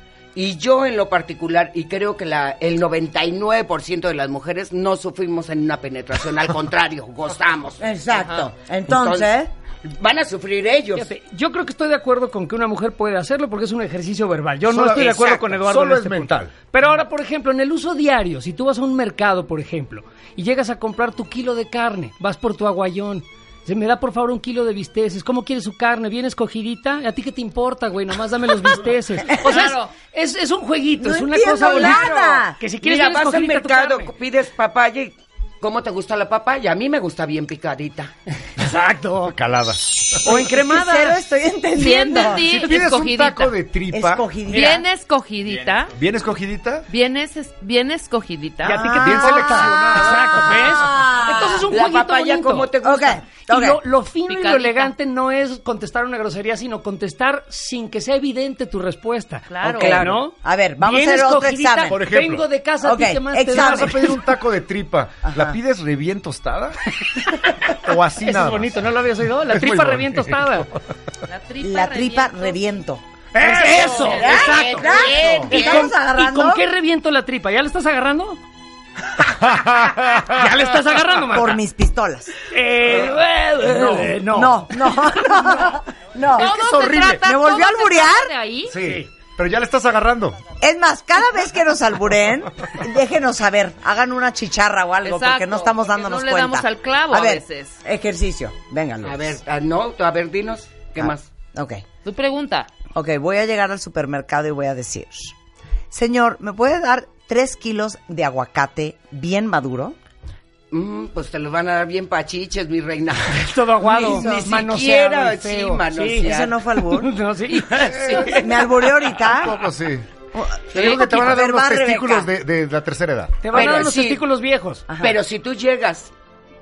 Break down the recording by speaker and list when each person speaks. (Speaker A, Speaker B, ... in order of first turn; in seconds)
Speaker A: 0.3-7.8, 8.9-11.1, 14.9-15.5, 31.6-38.1, 51.4-53.2, 59.7-60.2, 73.5-75.9, 99.0-101.3, 110.7-116.5, 117.6-118.3, 123.5-124.2, 125.0-126.1
Speaker B: 7.8-9.5, 31.0-32.6, 40.2-42.5, 43.9-44.8, 48.6-51.7, 52.8-53.8, 60.1-62.0, 62.8-64.1, 65.3-65.6, 71.6-73.0, 74.2-76.6, 81.3-82.3, 84.2-86.5, 87.2-88.3, 90.6-99.4, 101.0-101.8, 102.9-105.3, 105.9-110.0, 113.8-114.5, 116.2-117.1, 118.1-119.6, 120.3-122.3, 124.9-125.2
Speaker C: 8.2-8.4, 29.4-29.9, 41.8-43.5, 44.4-45.9, 46.9-48.8, 54.3-54.9, 59.5-60.0, 71.3-72.5, 73.6-74.7, 86.3-88.8, 95.0-97.7, 102.0-102.7
Speaker D: 10.9-34.1, 38.6-39.4, 40.2-41.2, 48.6-52.7, 53.5-64.1, 68.2-70.7, 73.3-74.9, 75.5-78.4, 80.2-81.6, 82.5-84.9, 88.8-89.1, 113.3-118.4, 123.4-124.8
Speaker E: 14.7-16.5, 39.3-40.4, 42.4-44.3, 45.9-46.9, 49.0-51.0, 61.9-62.5, 63.5-66.8, 67.7-68.8, 69.4-70.6, 79.6-80.3, 83.7-84.1, 86.4-87.2, 88.7-90.4, 118.0-118.4, 119.1-120.1, 120.7-123.4